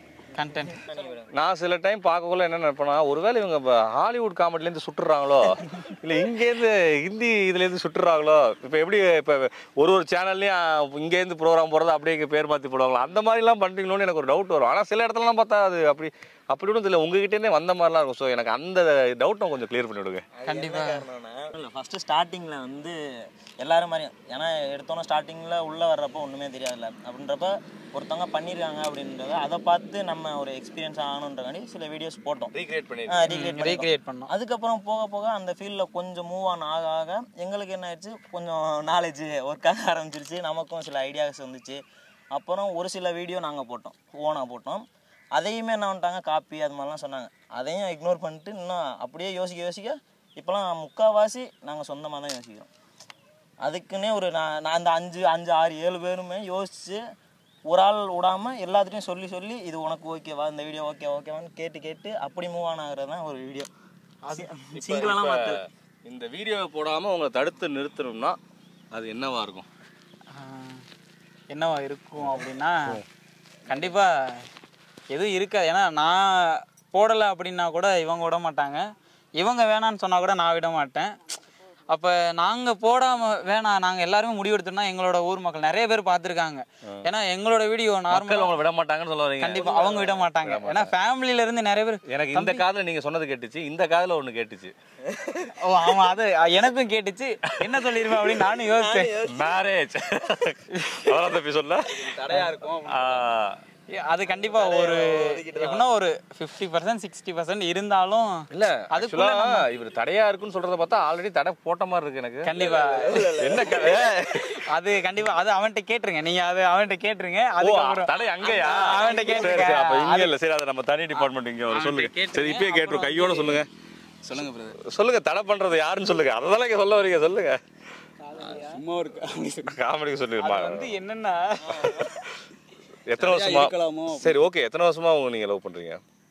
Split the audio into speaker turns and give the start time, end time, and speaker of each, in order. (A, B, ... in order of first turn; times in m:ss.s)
0:00.3-0:00.8 A
0:00.7-0:01.3 B
0:01.3-0:20.3 C
0:20.3-0:32.5 B
0:20.5-0:21.0 A
0:32.5-0:33.4 C
0:33.1-0:41.8 B
0:33.3-0:34.3 A
0:42.3-0:52.7 B
0:53.6-0:57.0 B
0:57.7-1:03.7 B
1:04.2-1:04.5 A
1:04.3-1:05.6 B
1:04.7-1:08.4 C
1:08.9-1:09.7 C
1:10.3-1:10.8 A
1:11.5-1:13.0 A
1:13.7-1:14.5 A
1:15.1-1:18.8 A
1:19.4-1:21.2 A
1:21.9-1:28.6 A
1:28.1-1:29.7 C
1:29.4-1:32.6 A
1:29.5-1:30.3 B
1:30.4-1:30.9 C
1:32.0-1:34.7 C
1:35.0-1:35.5 B
1:35.6-1:39.1 A
1:38.3-1:39.6 B
1:39.2-1:42.2 C
1:40.7-1:41.2 A
1:41.8-1:43.2 B
1:42.3-1:42.6 A
1:42.7-1:43.6 C
1:43.9-1:49.7 A
1:44.2-1:46.0 B
1:48.5-1:52.5 C
1:52.4-1:53.3 A
1:52.5-1:54.1 B
1:53.3-1:54.6 C
1:54.5-2:00.3 A
1:57.6-2:03.7 C
1:58.5-1:59.7 B
2:01.1-2:03.6 A
2:04.2-2:04.8 D
2:04.7-2:07.6 C
2:08.2-2:08.8 A
2:08.4-2:09.8 D
2:09.6-2:10.9 C
2:10.4-2:12.1 A
2:11.6-2:12.1 B
2:13.0-2:16.0 C
2:13.2-2:14.4 D